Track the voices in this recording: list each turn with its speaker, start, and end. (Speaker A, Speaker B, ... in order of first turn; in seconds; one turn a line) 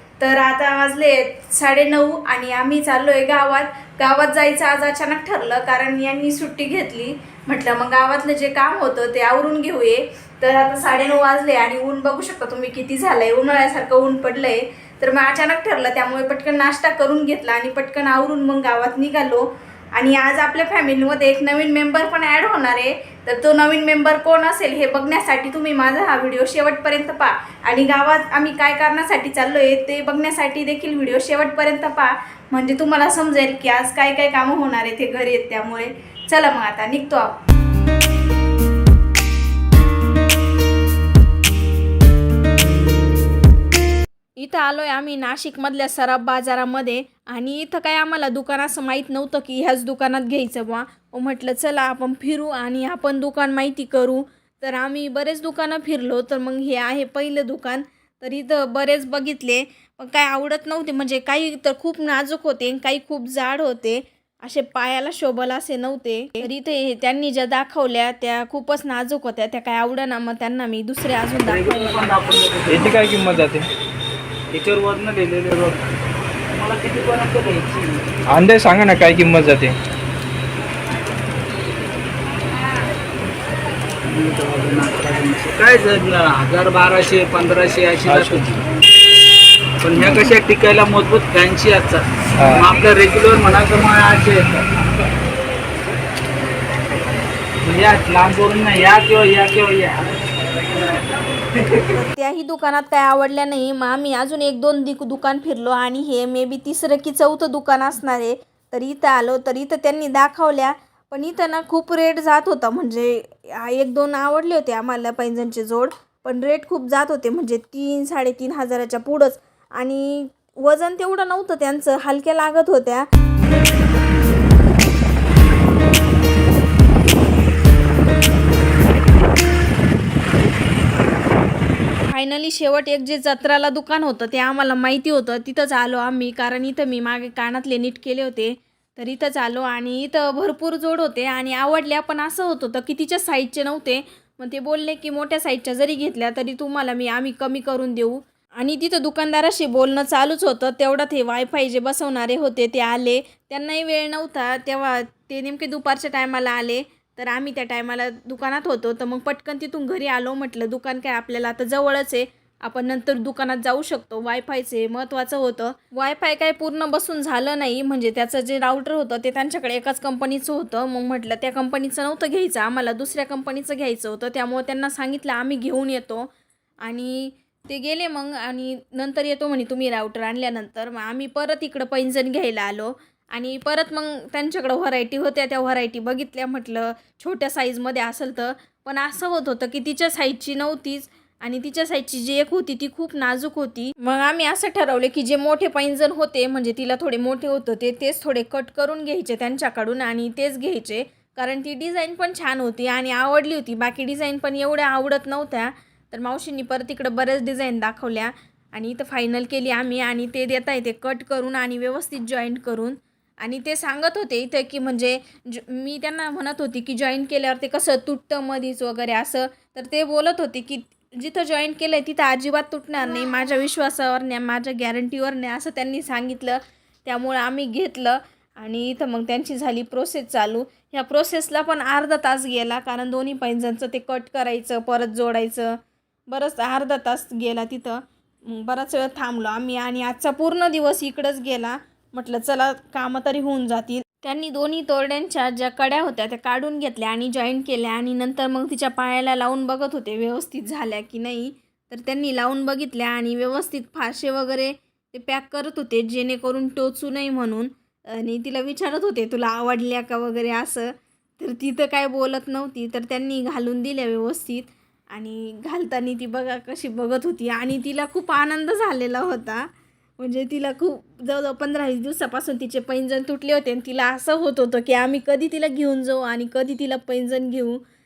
Speaker A: 0.2-37.4
Speaker A: 44.4-72.2
Speaker B: 71.3-73.0
Speaker C: 72.7-73.7
Speaker B: 74.5-75.8
Speaker B: 76.5-78.0
Speaker C: 78.3-79.8
Speaker B: 84.0-88.6
Speaker C: 88.1-88.4
Speaker B: 89.8-94.6
Speaker C: 92.4-92.7
Speaker B: 97.6-100.1
Speaker A: 101.9-123.1
Speaker A: 132.1-176.3
Speaker A: 176.8-277.8